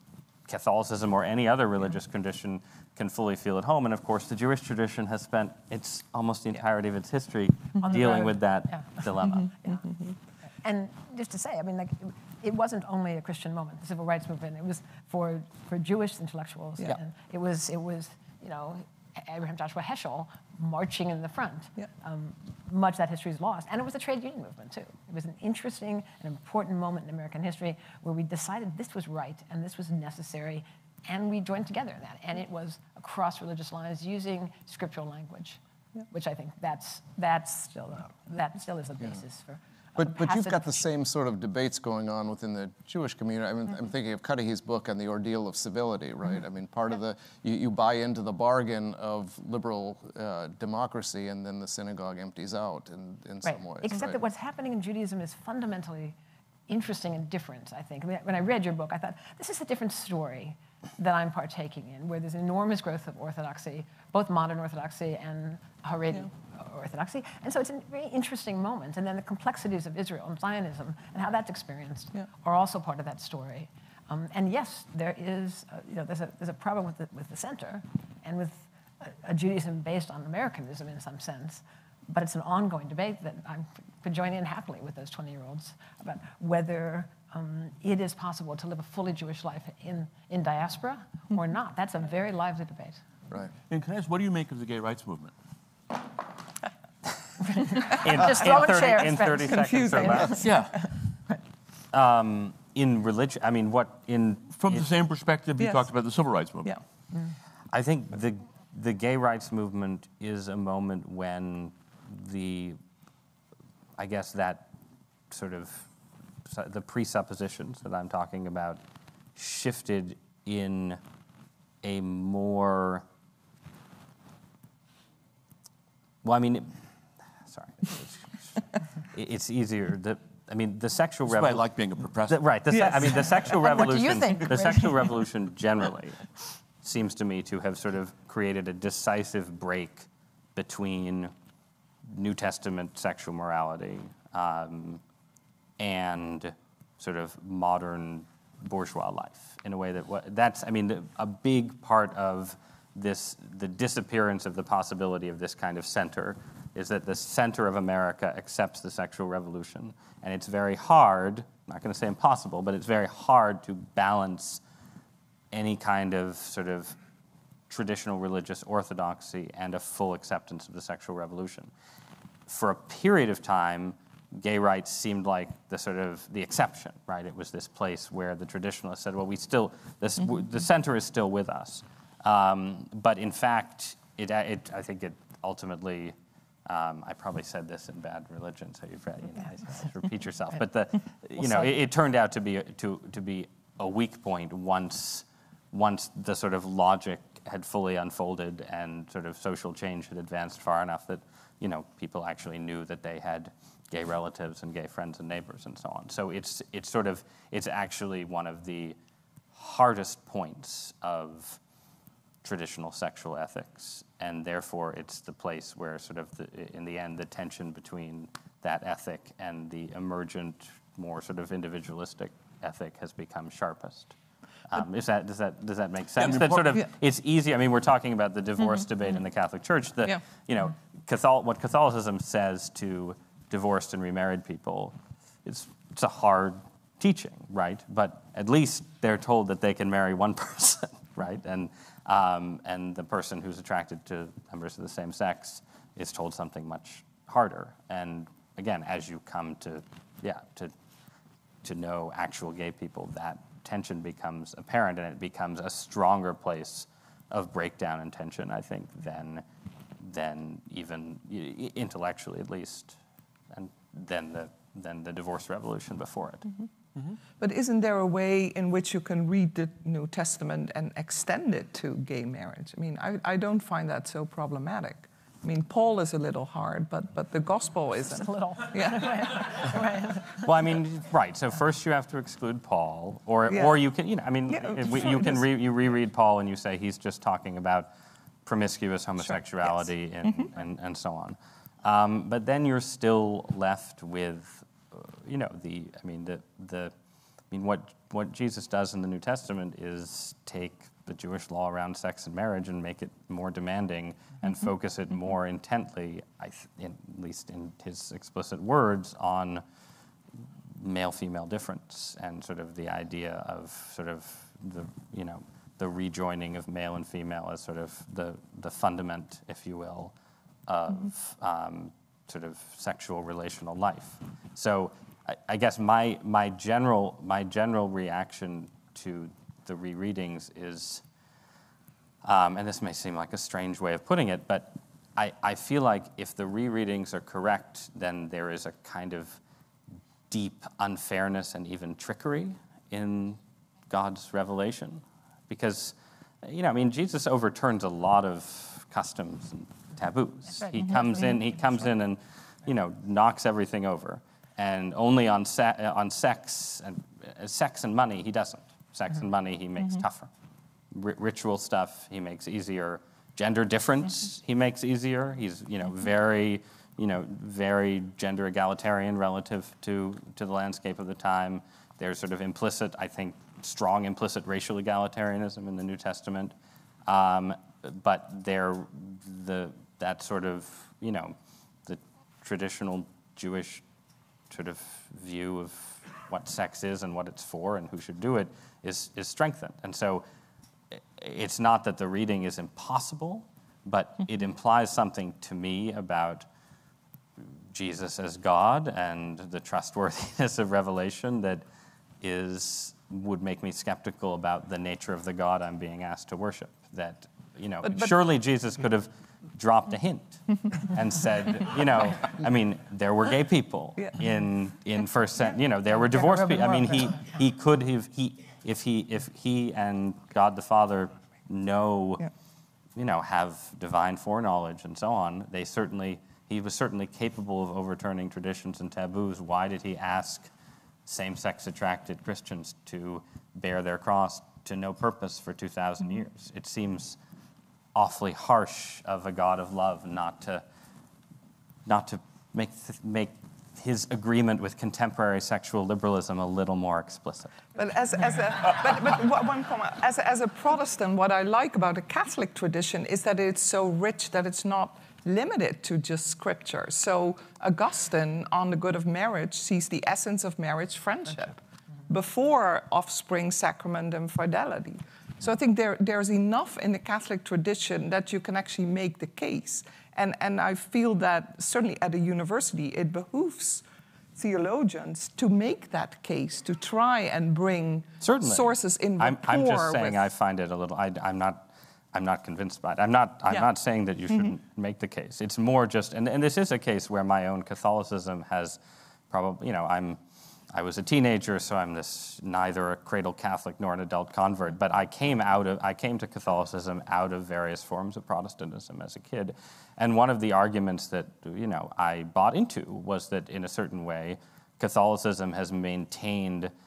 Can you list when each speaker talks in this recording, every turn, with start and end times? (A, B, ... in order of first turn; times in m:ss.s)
0:00.5-0:09.5 A
0:07.8-0:08.9 B
0:09.6-0:09.9 B
0:10.6-0:35.6 B
0:36.1-0:40.8 B
0:40.0-0:54.2 C
0:53.4-0:56.2 B
0:56.7-1:33.0 B
1:33.7-1:35.3 D
1:37.5-1:40.5 B
1:37.8-1:40.5 A
1:38.8-1:40.6 E
1:40.4-1:40.8 D
1:41.9-1:44.9 A
1:44.6-1:46.7 D
1:45.6-1:45.9 E
1:47.7-1:52.8 A
1:54.0-1:54.7 A
1:55.3-1:55.9 A
1:56.5-1:58.8 A
1:59.4-2:01.0 A
2:01.8-2:03.0 A
2:06.2-2:06.7 A
2:07.5-2:08.6 A
2:09.1-2:11.7 A
2:11.3-2:12.4 D
2:12.3-2:16.3 A
2:13.5-2:15.0 B
2:16.8-2:21.3 A
2:22.1-2:25.0 A
2:25.8-2:44.6 A
2:45.5-2:47.0 A
2:47.7-2:51.7 A
2:52.5-3:06.2 A
3:06.7-3:29.0 A
3:29.6-3:31.6 A
3:32.4-3:44.2 A
3:44.7-4:10.7 A
3:46.2-3:46.8 D
4:11.6-4:19.4 A
4:20.0-4:23.0 A
4:23.5-4:26.6 A
4:27.4-4:39.4 E
4:38.1-4:40.5 B
4:40.4-4:47.9 A
4:43.5-4:43.8 E
4:44.5-4:45.4 E
4:48.4-4:56.9 A
4:57.5-5:09.6 A
5:10.7-5:20.1 A
5:20.7-5:31.0 A
5:32.2-5:39.4 A
5:40.3-5:43.4 A
5:43.9-6:00.3 A
5:50.8-5:51.4 B
6:00.9-6:16.6 A
6:17.1-6:21.4 A
6:21.9-6:23.8 A
6:24.5-6:30.2 A
6:31.0-6:36.5 A
6:37.7-6:41.6 A
6:42.2-7:02.3 A
6:47.8-6:48.1 E
6:56.0-6:57.3 B
7:03.0-7:10.5 A
7:11.1-7:17.2 A
7:18.0-7:20.6 A
7:21.9-7:27.6 A
7:27.8-7:53.8 E
7:54.4-8:00.2 E
7:58.2-8:08.8 A
8:09.3-8:10.2 A
8:10.7-8:26.7 A